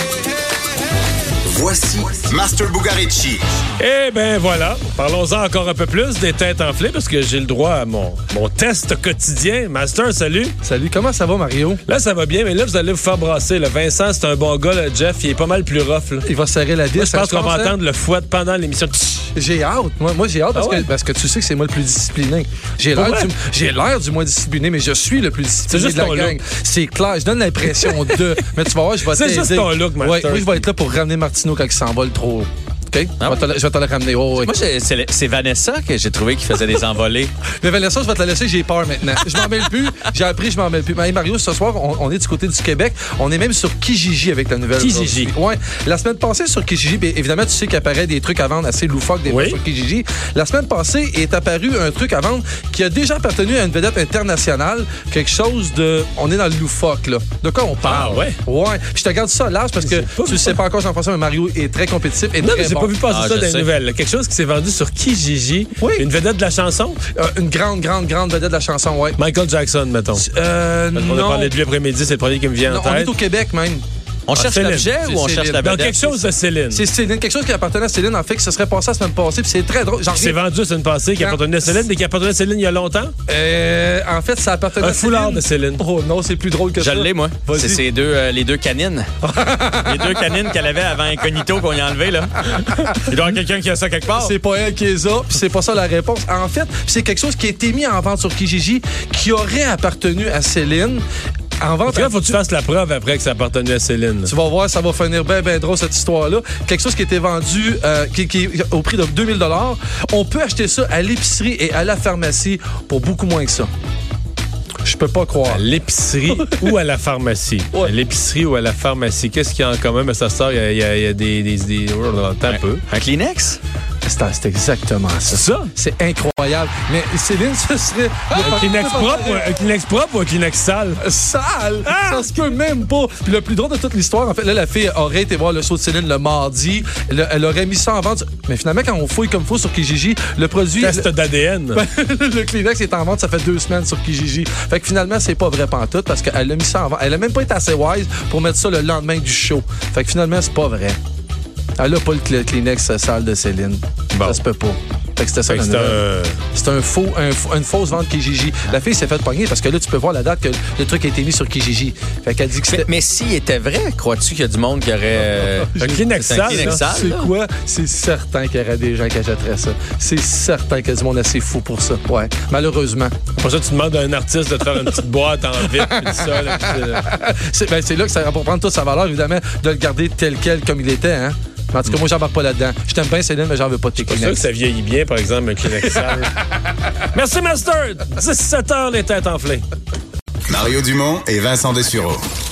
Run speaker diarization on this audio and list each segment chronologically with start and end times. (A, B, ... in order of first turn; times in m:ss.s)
0:01.5-0:03.4 A
0:03.8-0:10.6 B
0:10.6-0:11.8 C
0:11.9-0:16.3 B
0:16.2-0:17.8 C
0:17.0-0:19.3 B
0:19.4-0:34.6 C
0:20.5-0:20.9 B
0:23.0-0:23.3 B
0:25.7-0:26.4 B
0:27.8-0:28.2 B
0:29.1-0:30.6 B
0:34.4-0:37.3 D
0:37.6-1:02.9 C
0:44.8-0:45.3 B
0:49.3-0:49.6 B
0:57.8-0:58.4 B
0:59.8-1:00.6 B
1:02.4-1:07.0 B
1:03.1-1:03.7 D
1:05.8-1:06.1 C
1:07.2-1:09.2 C
1:09.2-1:10.2 B
1:10.2-1:11.6 C
1:11.0-1:13.1 B
1:12.6-1:13.8 C
1:14.3-1:16.2 D
1:14.4-1:14.9 B
1:15.0-1:15.8 C
1:15.6-1:16.8 B
1:16.7-1:20.4 C
1:20.1-1:23.1 B
1:21.2-1:21.8 C
1:23.3-1:27.8 C
1:24.8-1:25.8 B
1:26.8-1:29.1 D
1:29.2-1:30.2 C
1:29.8-1:34.4 D
1:32.5-1:33.0 C
1:34.1-1:41.0 C
1:41.6-1:42.2 C
1:41.9-1:44.3 B
1:44.2-1:53.7 C
1:54.8-1:55.7 C
1:55.5-2:02.8 B
1:56.3-1:56.7 C
2:02.5-2:03.6 D
2:04.0-2:09.5 C
2:05.3-2:05.7 B
2:08.3-2:11.0 B
2:11.0-2:21.1 C
2:11.8-2:12.3 B
2:20.8-2:21.8 B
2:21.7-2:31.0 C
2:31.8-2:42.9 C
2:34.1-2:34.4 B
2:35.5-2:36.4 B
2:42.7-2:47.3 D
2:45.7-2:53.2 C
2:45.8-2:46.8 B
2:53.4-2:57.1 B
2:55.7-3:04.4 C
3:04.0-3:06.3 B
3:07.1-3:09.6 B
3:10.5-3:12.2 A